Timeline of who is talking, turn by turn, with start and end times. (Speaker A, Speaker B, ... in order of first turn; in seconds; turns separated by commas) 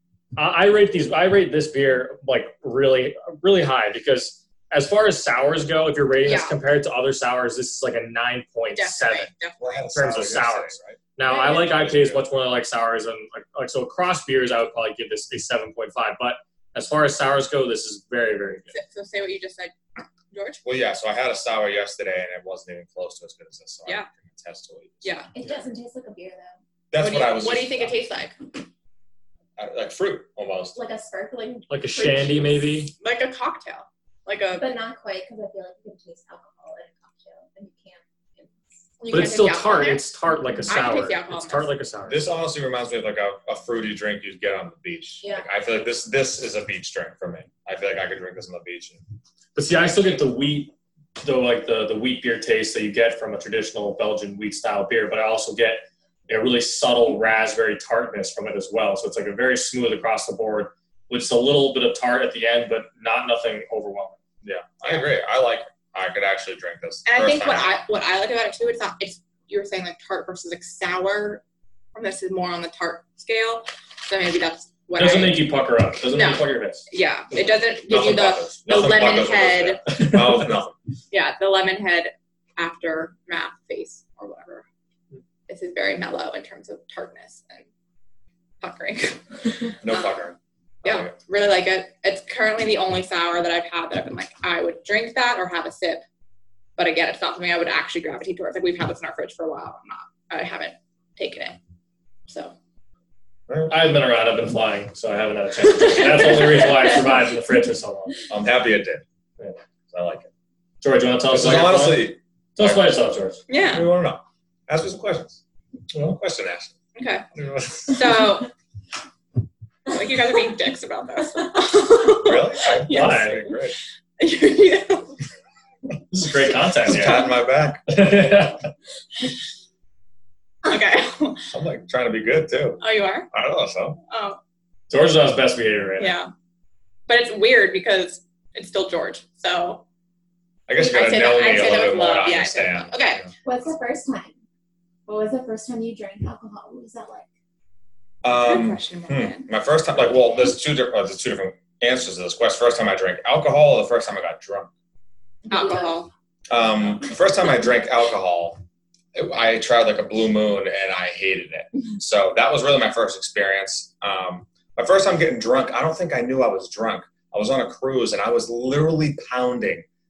Speaker A: 0.3-9.3, Speaker B: 6.2-6.6, Speaker B: 8.7-9.6, Speaker C: 9.6-12.2, Speaker A: 9.9-18.7, Speaker B: 11.2-11.7, Speaker B: 18.7-20.6, Speaker C: 20.6-25.2, Speaker B: 25.0-25.3, Speaker D: 25.3-26.6, Speaker C: 26.9-28.0, Speaker B: 27.0-28.6, Speaker C: 29.6-30.8, Speaker D: 30.7-32.8, Speaker A: 31.7-32.9, Speaker B: 33.0-34.7, Speaker D: 34.6-38.9, Speaker B: 39.0-40.1, Speaker A: 39.1-42.3, Speaker B: 40.6-41.7, Speaker C: 42.1-49.0, Speaker A: 49.5-64.2, Speaker C: 64.4-67.7, Speaker B: 67.0-71.4, Speaker B: 71.9-75.5, Speaker A: 75.0-76.8, Speaker B: 76.1-80.0, Speaker C: 77.9-80.7, Speaker B: 81.1-84.7, Speaker B: 85.5-87.7, Speaker B: 88.6-90.3, Speaker C: 89.8-91.1, Speaker B: 90.8-96.0, Speaker B: 96.8-101.6, Speaker B: 102.3-102.5, Speaker C: 103.5-103.8, Speaker A: 103.7-108.2, Speaker B: 105.7-107.2, Speaker C: 108.3-109.0, Speaker C: 109.9-110.3, Speaker A: 110.8-113.4, Speaker C: 111.3-112.9, Speaker B: 113.5-113.9, Speaker C: 113.7-115.4, Speaker C: 115.9-116.7, Speaker B: 117.0-117.3, Speaker C: 117.3-117.9, Speaker B: 117.8-118.5, Speaker B: 119.9-125.1, Speaker C: 122.2-123.8, Speaker A: 122.9-123.4, Speaker A: 126.1-127.3, Speaker C: 126.8-128.5, Speaker A: 127.9-128.7, Speaker B: 130.6-131.4, Speaker C: 131.5-132.8, Speaker B: 132.8-133.3, Speaker C: 133.3-134.0, Speaker B: 134.1-134.4, Speaker A: 134.9-136.2, Speaker B: 136.0-136.3, Speaker B: 137.1-139.8, Speaker C: 140.7-143.3, Speaker B: 140.8-143.2, Speaker D: 143.4-144.4, Speaker D: 145.1-147.3, Speaker C: 148.2-154.7, Speaker B: 148.4-149.4, Speaker D: 155.5-155.9, Speaker B: 155.5-156.1, Speaker C: 156.5-158.6, Speaker C: 159.1-169.8